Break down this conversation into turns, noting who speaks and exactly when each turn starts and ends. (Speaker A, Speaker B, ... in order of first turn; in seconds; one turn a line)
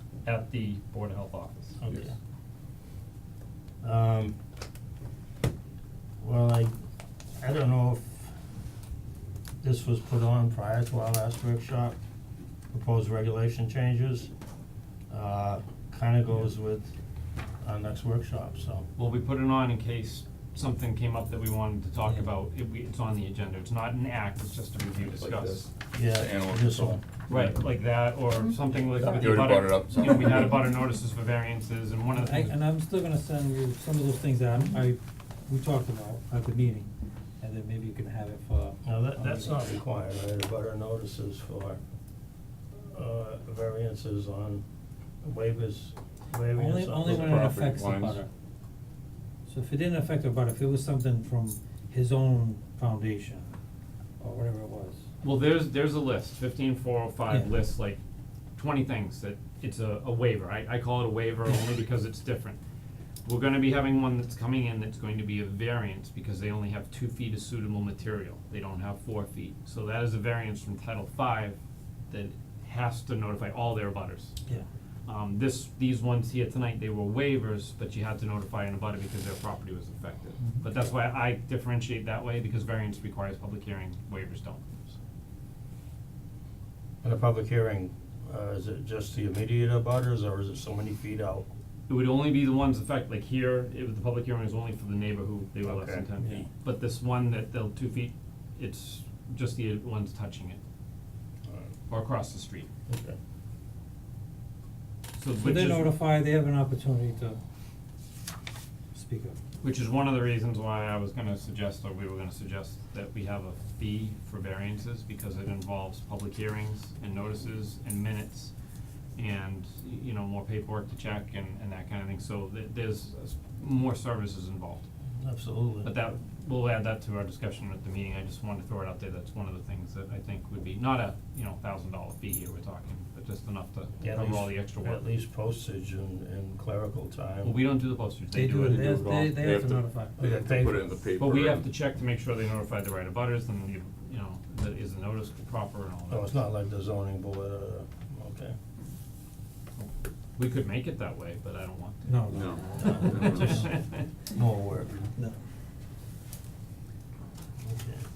Speaker A: 0.2-1.8
Speaker B: 1.8-2.2
Speaker B: 3.8-4.3
Speaker B: 6.2-6.7
Speaker B: 7.4-8.3
Speaker B: 9.6-12.0
Speaker B: 12.7-14.3
Speaker B: 15.1-16.9
Speaker B: 17.6-18.9
Speaker A: 19.0-25.7
Speaker C: 25.0-27.5
Speaker B: 25.9-27.0
Speaker A: 27.3-32.6
Speaker C: 28.9-30.7
Speaker D: 32.2-36.9
Speaker D: 37.4-39.6
Speaker B: 38.8-41.8
Speaker B: 42.9-44.6
Speaker B: 45.2-47.5
Speaker D: 46.5-48.3
Speaker C: 47.0-48.2
Speaker D: 49.5-53.6
Speaker D: 54.2-55.0
Speaker A: 55.2-58.0
Speaker A: 58.6-62.6
Speaker A: 63.3-71.6
Speaker A: 72.1-74.3
Speaker A: 75.1-84.9
Speaker D: 80.4-80.7
Speaker B: 87.0-91.5
Speaker A: 91.9-100.6
Speaker B: 95.6-96.1
Speaker A: 101.9-102.7
Speaker B: 102.9-103.2
Speaker A: 105.2-105.9
Speaker D: 105.4-107.4
Speaker D: 108.9-109.4
Speaker A: 109.6-118.5
Speaker A: 119.2-124.8
Speaker B: 125.2-125.9
Speaker A: 125.8-135.0
Speaker B: 134.0-137.6
Speaker A: 137.4-139.3
Speaker D: 138.3-140.2
Speaker C: 138.8-141.7
Speaker B: 140.2-140.8
Speaker A: 141.2-146.5
Speaker B: 146.1-148.6
Speaker A: 149.8-154.1
Speaker D: 152.1-153.8
Speaker C: 152.3-153.7
Speaker B: 152.8-153.3
Speaker B: 154.3-155.1
Speaker B: 157.6-158.1